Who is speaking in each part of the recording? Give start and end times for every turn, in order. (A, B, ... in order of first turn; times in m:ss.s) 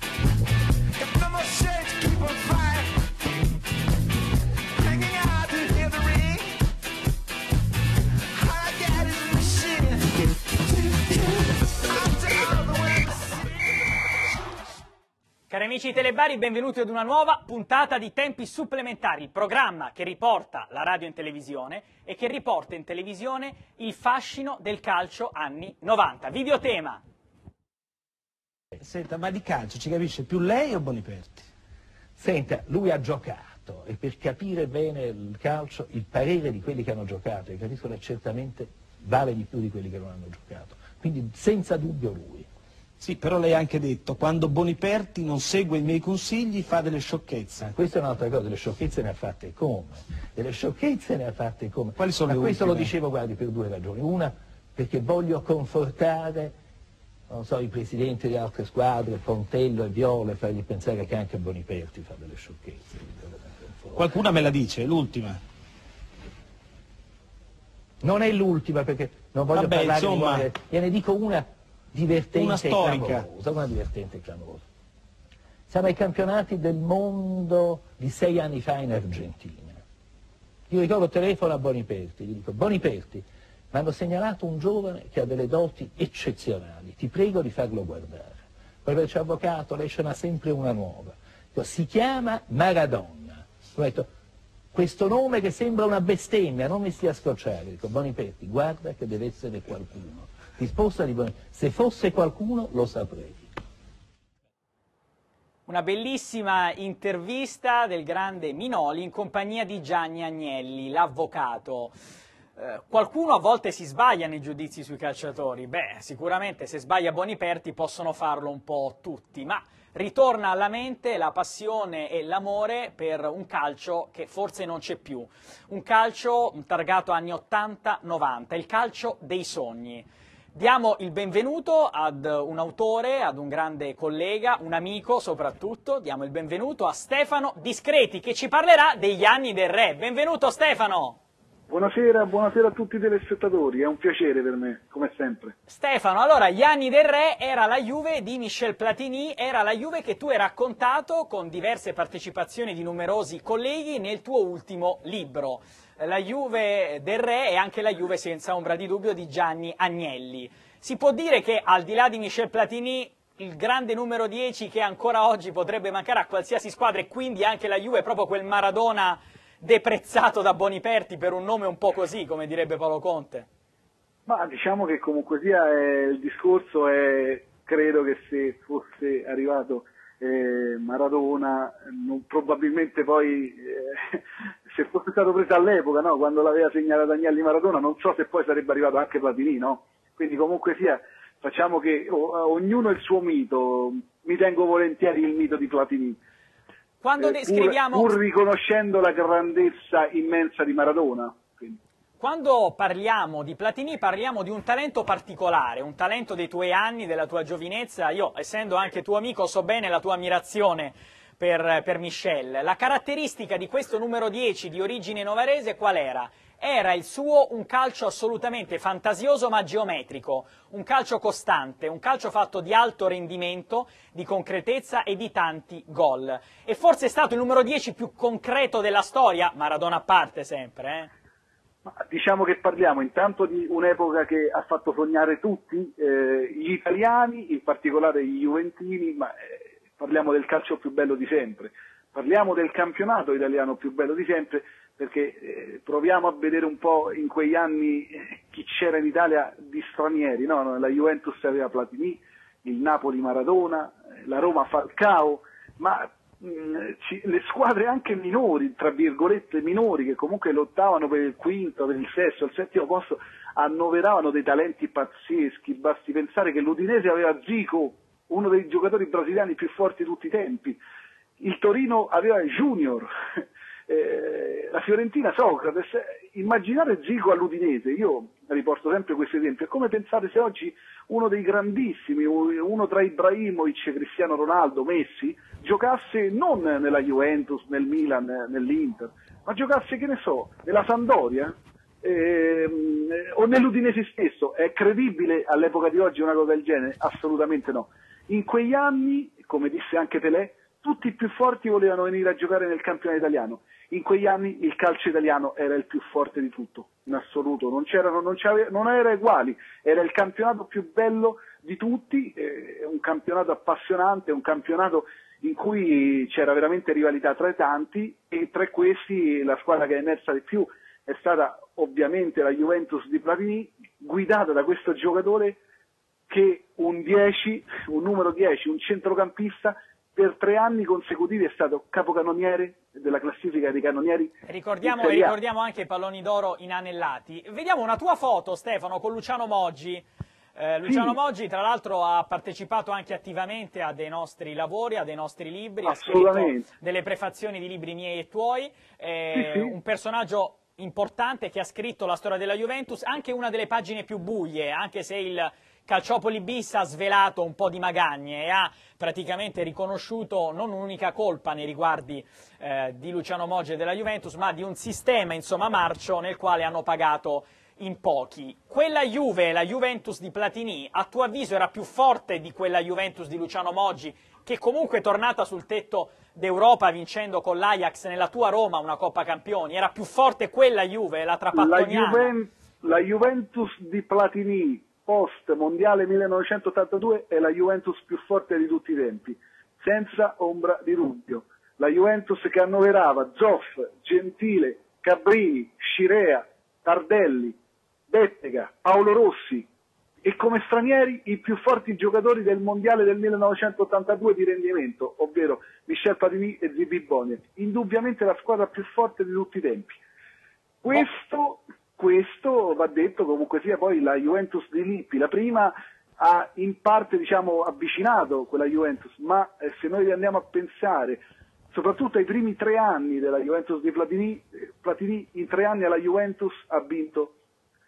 0:00.9-0:03.3 A
0:04.7-0:06.6 A
0:08.3-0:13.6 A
0:15.5-0:27.0 B
0:28.8-0:31.5 A
0:32.2-0:42.5 C
0:43.0-0:47.7 A
0:47.6-0:56.5 C
0:52.0-0:52.9 A
0:57.3-1:04.1 C
1:03.9-1:05.4 A
1:08.0-1:14.6 C
1:09.5-1:10.5 A
1:12.3-1:13.3 A
1:15.7-1:19.8 C
1:20.7-1:34.1 C
1:34.7-1:43.5 C
1:45.7-1:51.9 B
1:52.6-2:21.2 B
2:21.7-2:25.5 D
2:25.7-2:53.5 B
2:54.3-3:16.2 D
3:17.0-3:18.2 B
3:17.2-3:21.8 D
3:22.2-3:51.1 B
3:51.8-4:30.8 D
4:31.4-4:33.1 D
4:33.9-5:25.6 D
5:26.3-5:35.4 D
5:34.4-6:22.3 B
5:40.8-5:41.2 D
5:45.8-5:46.6 D
5:49.3-5:49.7 D
6:21.5-6:37.6 D
6:38.1-6:39.7 D
6:40.2-6:50.0 D
6:50.8-7:01.2 D
7:01.7-7:07.3 D